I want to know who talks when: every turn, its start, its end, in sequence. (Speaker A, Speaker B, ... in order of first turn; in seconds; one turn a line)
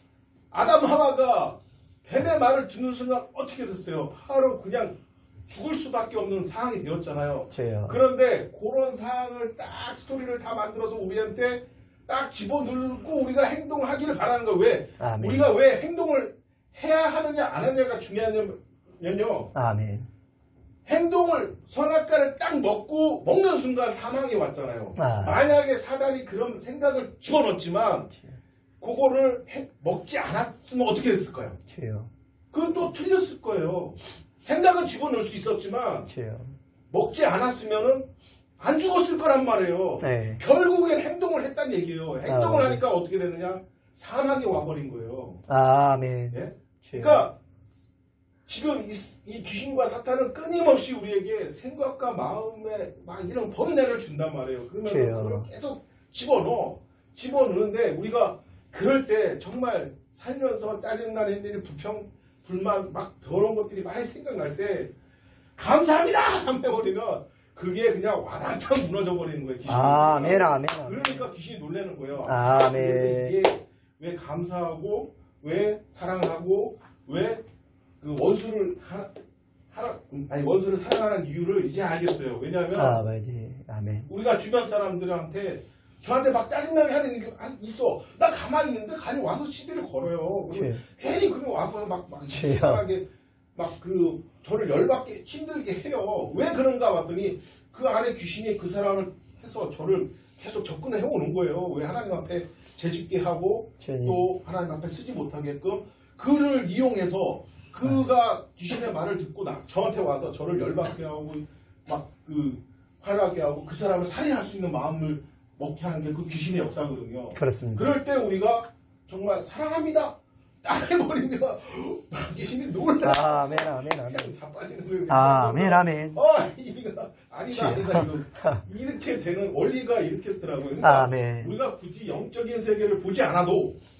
Speaker A: 0.5-19.6
Speaker B: 7.5-8.0
Speaker B: 15.0-15.5
Speaker B: 19.5-20.1
Speaker A: 20.9-28.1
Speaker B: 24.9-25.4
Speaker A: 28.8-31.6
Speaker B: 31.7-32.1
Speaker A: 32.5-36.1
Speaker B: 36.1-36.6
Speaker A: 36.9-45.4
Speaker B: 40.0-40.4
Speaker B: 42.2-42.8
Speaker B: 45.5-47.3
Speaker A: 46.3-47.4
Speaker A: 48.5-64.9
Speaker B: 54.8-55.5
Speaker A: 65.5-77.4
Speaker B: 69.7-71.3
Speaker B: 72.2-73.3
Speaker A: 78.0-79.1
Speaker A: 79.7-83.0
Speaker B: 82.7-84.1
Speaker A: 84.1-133.8
Speaker B: 90.5-90.8
Speaker B: 92.3-92.8
Speaker B: 103.8-104.2
Speaker B: 107.8-108.1
Speaker B: 117.3-117.9
Speaker B: 123.0-124.3
Speaker B: 125.1-126.2
Speaker B: 127.5-128.6
Speaker B: 130.8-131.5